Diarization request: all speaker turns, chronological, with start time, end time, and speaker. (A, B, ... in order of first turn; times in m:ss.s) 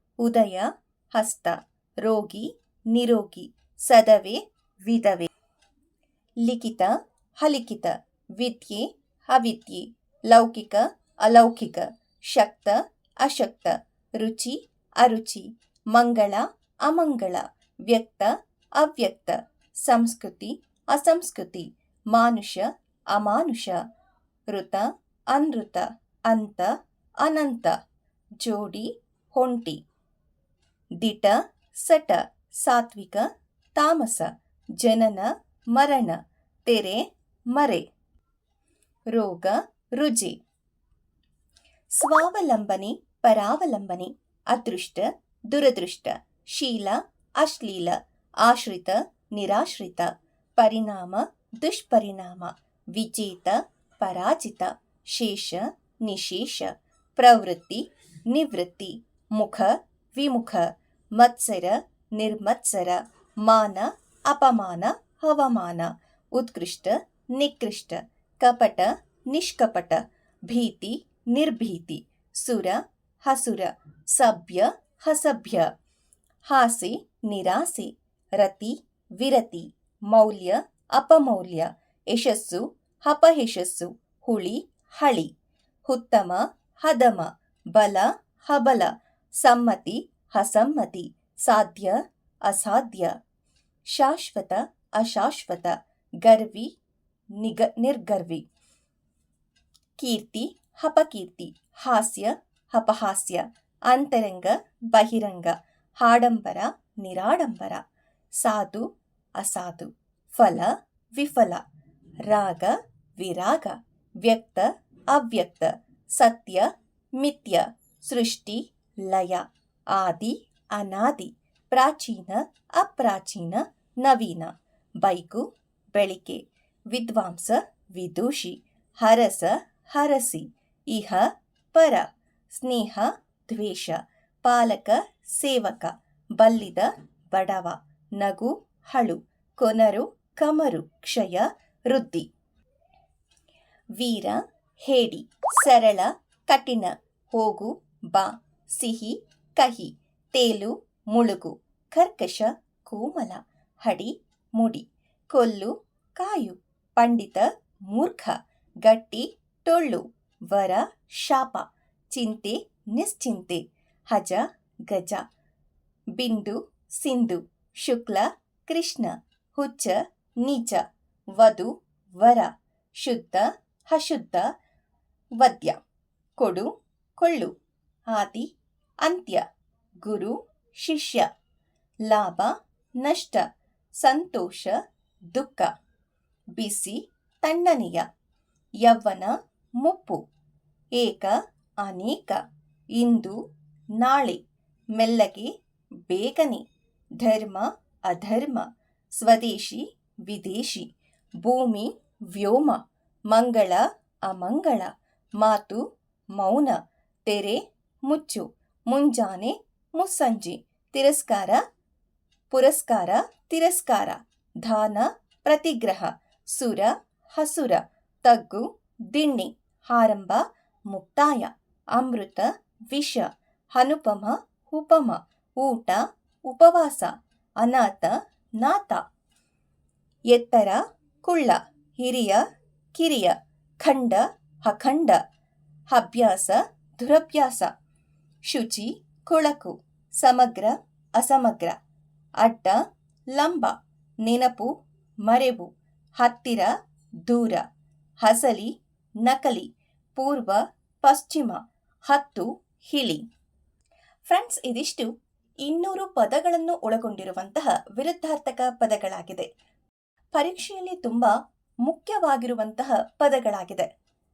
0:00.2-0:05.3 A
0:06.4-0:23.8 A
0:24.5-0:27.8 A
0:28.4-0:29.8 A
0:31.0-0:37.8 A
0:39.1-0:40.4 A
0:41.9-1:15.7 A
1:16.5-1:25.3 A
1:25.8-1:33.1 A
1:33.9-1:36.7 A
1:37.4-1:38.4 A
1:40.0-1:47.8 A
1:48.4-1:51.6 A
1:52.2-2:22.3 A
2:24.0-2:45.2 A
2:46.2-2:50.8 A
2:51.4-2:54.5 A
2:55.4-2:55.8 A
2:56.4-2:57.5 A
2:58.1-2:58.5 A
2:59.0-2:59.4 A
3:00.0-3:01.3 A
3:02.1-3:03.4 A
3:04.0-3:04.8 A
3:05.3-3:05.7 A
3:06.6-3:08.0 A
3:08.8-3:10.2 A
3:10.9-3:12.4 A
3:12.9-3:13.4 A
3:14.0-3:14.4 A
3:14.9-3:15.5 A
3:16.0-3:16.6 A
3:17.2-3:20.9 A
3:21.4-3:25.8 A
3:26.3-3:31.6 A
3:32.5-3:49.0 A
3:50.3-3:52.4 A
3:52.9-3:55.2 A
3:55.9-3:57.7 A
3:58.5-4:01.8 A
4:02.4-4:02.8 A
4:03.3-4:04.7 A
4:05.2-4:06.7 A
4:07.2-4:07.6 A
4:08.2-4:13.2 A
4:14.2-4:15.1 A
4:15.6-4:19.5 A
4:20.3-4:23.9 A